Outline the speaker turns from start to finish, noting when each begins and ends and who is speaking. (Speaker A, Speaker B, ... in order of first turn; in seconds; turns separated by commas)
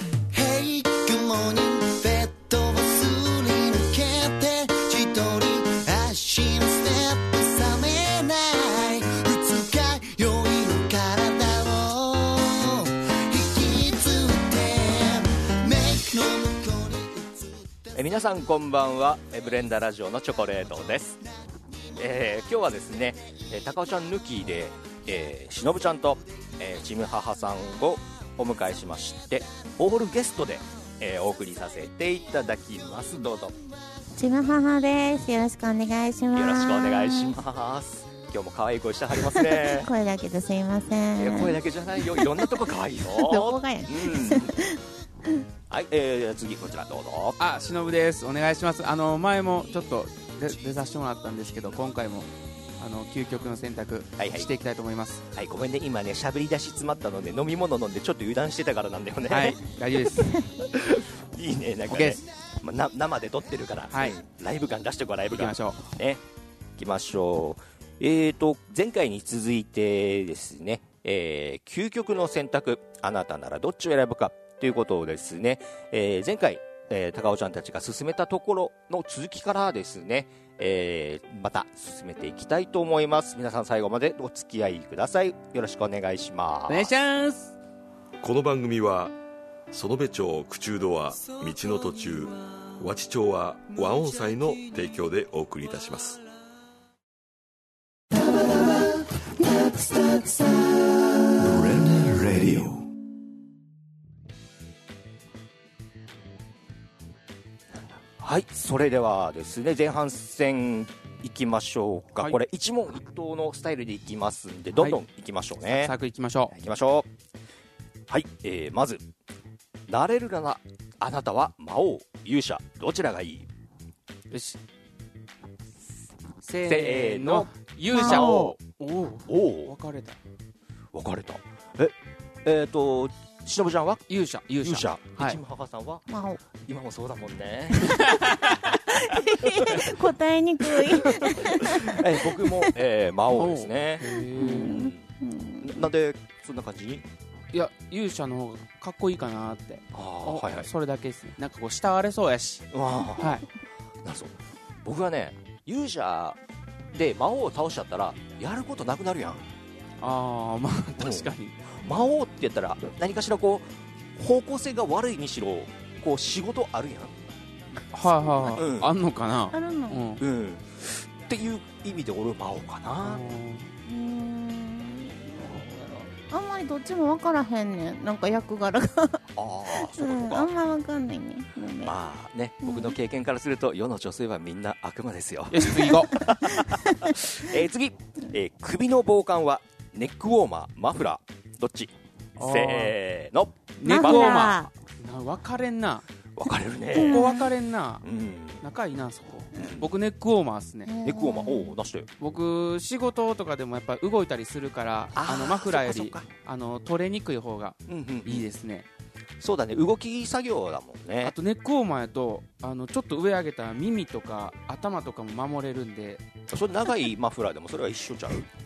Speaker A: 0.3-17.9, Speaker B: 17.9-21.2, Speaker B: 22.0-33.6, Speaker C: 34.1-37.4, Speaker B: 36.3-39.9, Speaker C: 39.2-44.8, Speaker B: 41.2-44.7, Speaker B: 45.7-47.4, Speaker D: 47.4-55.2, Speaker B: 54.2-54.5, Speaker B: 55.3-66.2, Speaker D: 59.3-60.3, Speaker D: 61.9-62.2, Speaker D: 63.9-64.2, Speaker D: 65.3-65.8, Speaker B: 66.8-86.9, Speaker D: 86.7-87.5, Speaker E: 88.2-89.2, Speaker E: 89.7-96.2, Speaker A: 98.1-100.9, Speaker E: 101.4-102.8, Speaker B: 107.8-116.0, Speaker D: 114.8-115.0, Speaker D: 115.7-116.5, Speaker B: 116.5-117.1, Speaker B: 118.1-119.0, Speaker B: 119.9-123.5, Speaker D: 124.3-124.6, Speaker D: 126.4-130.2, Speaker B: 126.7-128.5, Speaker C: 127.9-128.5, Speaker B: 129.3-129.7, Speaker B: 130.9-134.1, Speaker D: 134.1-135.4, Speaker B: 134.6-140.0, Speaker C: 136.1-136.4, Speaker D: 137.8-138.6, Speaker C: 138.9-142.8, Speaker B: 140.7-144.1, Speaker D: 143.3-144.8, Speaker C: 144.1-145.8, Speaker B: 144.6-145.0, Speaker B: 145.6-147.1, Speaker D: 147.5-152.7, Speaker B: 149.9-150.7, Speaker B: 152.7-153.4, Speaker D: 153.2-153.4, Speaker B: 154.0-156.4, Speaker B: 156.9-159.5, Speaker D: 160.0-161.6, Speaker B: 161.0-167.2, Speaker D: 167.9-170.2, Speaker C: 168.2-168.6, Speaker B: 168.6-168.9, Speaker C: 169.5-170.1, Speaker B: 170.2-173.3, Speaker D: 173.0-173.7, Speaker C: 173.9-181.9, Speaker B: 179.3-180.5, Speaker B: 181.8-194.4, Speaker C: 182.6-182.9, Speaker D: 185.5-186.2, Speaker C: 186.2-187.1, Speaker D: 192.4-192.9, Speaker D: 193.8-196.1, Speaker C: 193.8-194.7, Speaker B: 196.3-197.3, Speaker D: 196.9-198.1, Speaker C: 196.9-197.5, Speaker B: 198.0-198.6, Speaker D: 198.6-200.9, Speaker B: 199.6-199.9, Speaker C: 200.9-201.8, Speaker B: 201.0-202.1, Speaker D: 202.2-208.9, Speaker B: 205.1-206.3, Speaker B: 207.9-208.5, Speaker B: 209.4-211.3, Speaker D: 211.2-216.2, Speaker B: 216.5-218.5